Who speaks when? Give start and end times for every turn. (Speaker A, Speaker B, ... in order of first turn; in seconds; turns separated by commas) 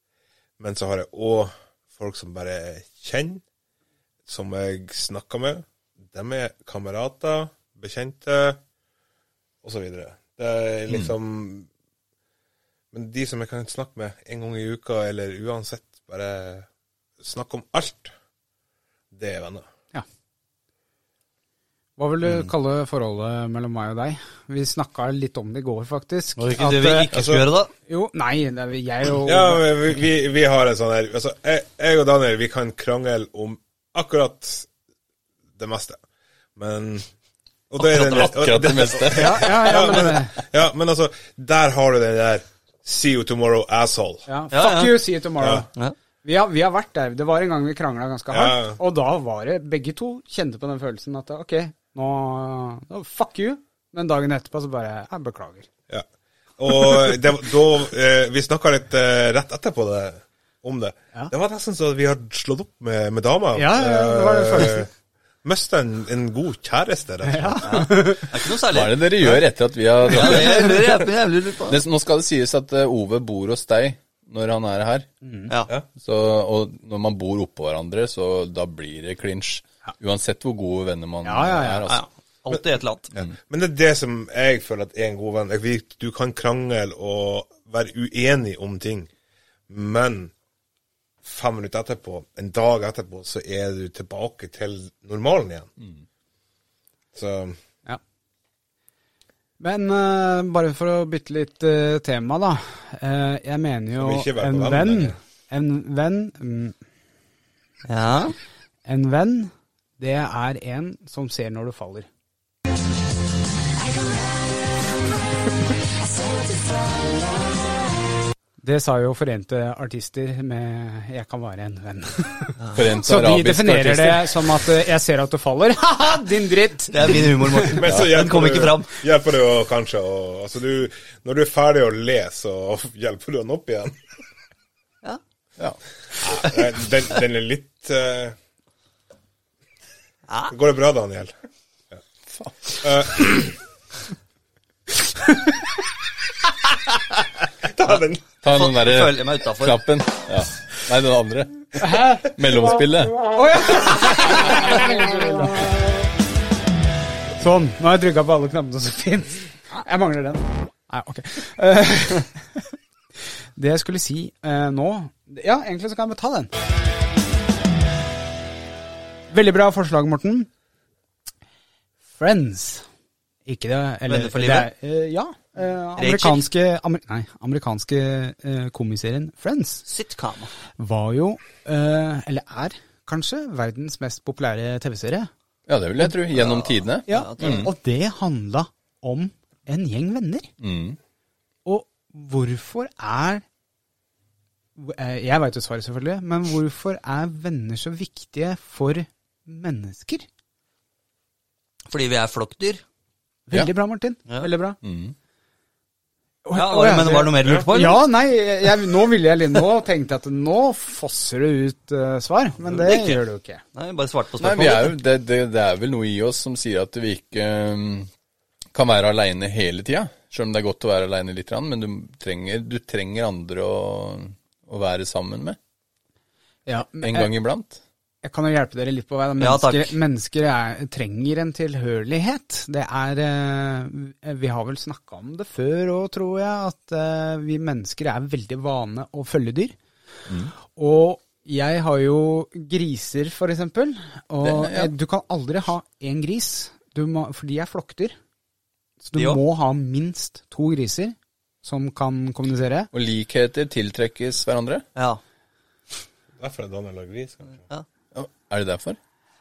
Speaker A: 0.6-3.4, Speaker A: 4.3-8.6, Speaker A: 9.6-11.7, Speaker A: 12.9-16.7, Speaker A: 17.2-18.1, Speaker A: 19.1-19.6, Speaker B: 22.0-27.1, Speaker C: 26.4-27.7, Speaker A: 27.1-27.4, Speaker B: 27.9-29.6, Speaker A: 29.2-34.7, Speaker A: 35.6-36.0, Speaker A: 36.5-37.1, Speaker A: 37.7-44.2, Speaker C: 37.8-38.3, Speaker D: 38.0-40.2, Speaker B: 39.1-40.4, Speaker B: 44.3-45.7, Speaker C: 44.5-45.0, Speaker A: 45.4-45.6, Speaker B: 46.2-55.7, Speaker A: 48.3-48.8, Speaker A: 56.6-64.9, Speaker B: 63.5-64.8, Speaker A: 65.4-67.9, Speaker B: 67.2-68.3, Speaker C: 67.6-69.4, Speaker D: 68.7-71.0, Speaker C: 70.0-71.8, Speaker D: 71.7-75.1, Speaker B: 75.2-75.5, Speaker D: 76.0-82.0, Speaker B: 81.2-81.9, Speaker C: 81.9-83.1, Speaker A: 83.1-89.1, Speaker A: 89.7-90.3, Speaker A: 91.2-95.7, Speaker A: 97.1-97.6, Speaker B: 99.6-106.8, Speaker A: 104.0-105.2, Speaker C: 107.8-108.3, Speaker B: 108.8-112.1, Speaker B: 118.6-127.8, Speaker C: 122.6-122.9, Speaker D: 122.7-124.4, Speaker C: 126.9-128.9, Speaker A: 127.7-134.0, Speaker A: 136.2-138.3, Speaker C: 140.3-140.5, Speaker A: 140.5-141.3, Speaker A: 142.8-143.6, Speaker A: 147.6-148.2, Speaker C: 147.9-149.8, Speaker D: 148.4-153.2, Speaker B: 151.8-152.3, Speaker B: 153.3-156.0, Speaker B: 157.4-162.7, Speaker B: 163.6-166.5, Speaker B: 169.3-170.5, Speaker B: 172.1-172.8, Speaker B: 173.4-179.8, Speaker C: 174.1-174.7, Speaker C: 176.0-176.4, Speaker C: 179.9-180.5, Speaker B: 180.8-185.3, Speaker D: 185.7-187.7, Speaker C: 186.4-187.7, Speaker B: 187.1-190.5, Speaker D: 190.6-191.0, Speaker B: 191.6-193.4, Speaker B: 194.8-200.2, Speaker C: 201.9-202.8, Speaker B: 203.5-204.8, Speaker D: 204.8-205.1, Speaker B: 206.4-213.6, Speaker C: 206.5-208.0, Speaker C: 212.7-213.2, Speaker C: 213.7-214.9, Speaker D: 214.4-218.1, Speaker D: 218.7-225.6, Speaker B: 226.7-227.3, Speaker D: 227.0-227.8, Speaker B: 228.2-239.8, Speaker C: 229.4-229.9, Speaker D: 240.3-240.5, Speaker B: 240.6-248.2, Speaker D: 244.4-244.9, Speaker B: 249.0-252.9, Speaker C: 249.2-249.4, Speaker D: 252.9-254.8, Speaker A: 256.4-257.6, Speaker D: 258.1-259.0